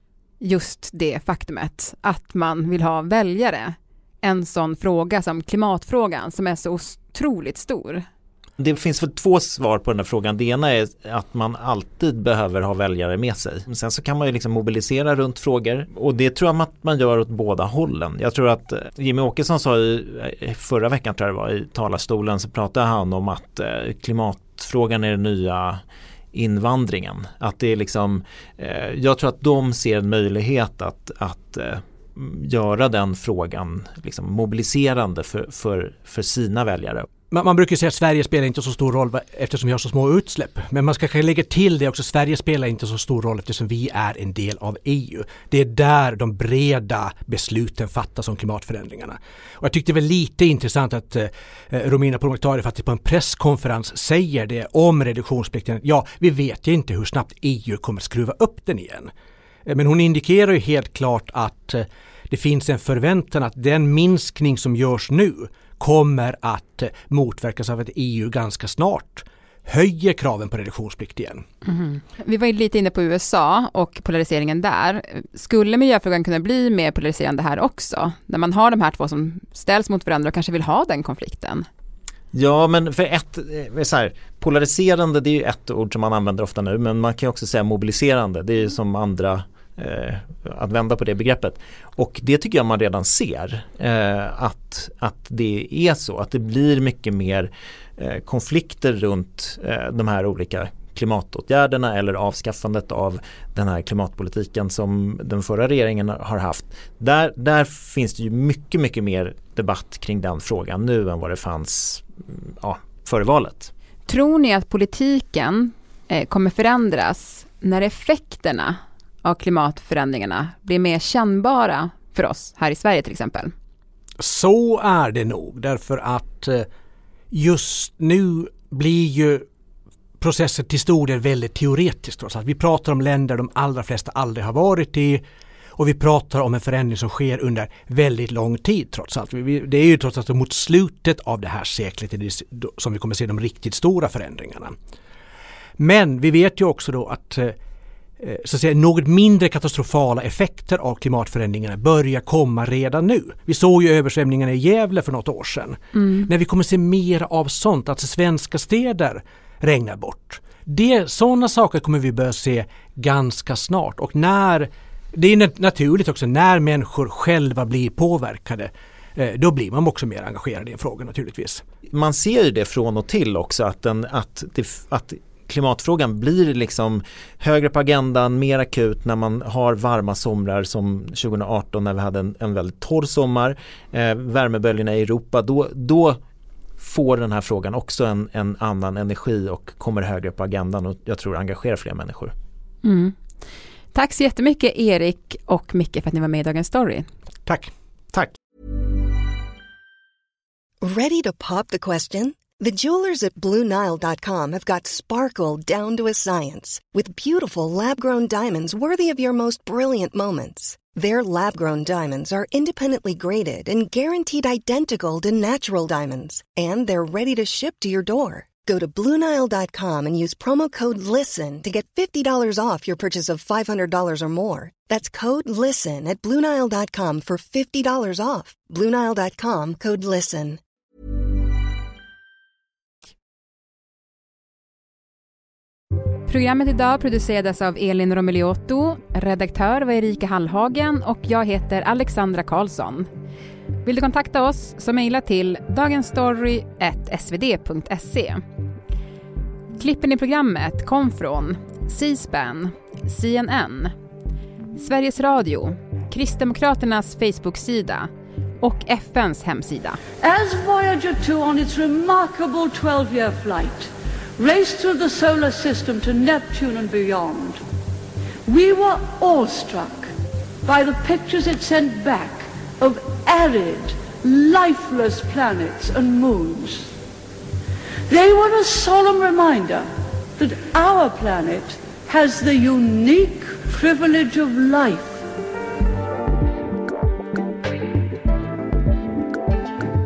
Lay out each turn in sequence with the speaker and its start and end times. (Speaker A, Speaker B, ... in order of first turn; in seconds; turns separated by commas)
Speaker A: 0.4-8.0, Speaker B: 8.6-25.8, Speaker B: 26.3-37.1, Speaker C: 37.3-59.1, Speaker C: 59.7-71.4, Speaker A: 71.6-81.7, Speaker B: 82.3-113.7, Speaker A: 114.1-123.5, Speaker C: 124.2-126.7, Speaker C: 127.3-129.4, Speaker C: 130.2-135.2, Speaker C: 135.8-144.7, Speaker C: 145.8-147.6, Speaker C: 148.2-171.6, Speaker A: 156.0-156.3, Speaker B: 171.9-186.2, Speaker B: 186.8-192.3, Speaker A: 192.8-193.2, Speaker A: 193.9-197.1, Speaker C: 197.5-197.7, Speaker D: 200.8-230.6, Speaker A: 236.3-243.1, Speaker A: 243.8-248.4, Speaker A: 249.8-253.9, Speaker A: 254.8-258.1, Speaker A: 258.6-260.0, Speaker E: 260.2-267.6, Speaker E: 268.5-270.1, Speaker E: 270.6-276.9, Speaker E: 278.1-285.3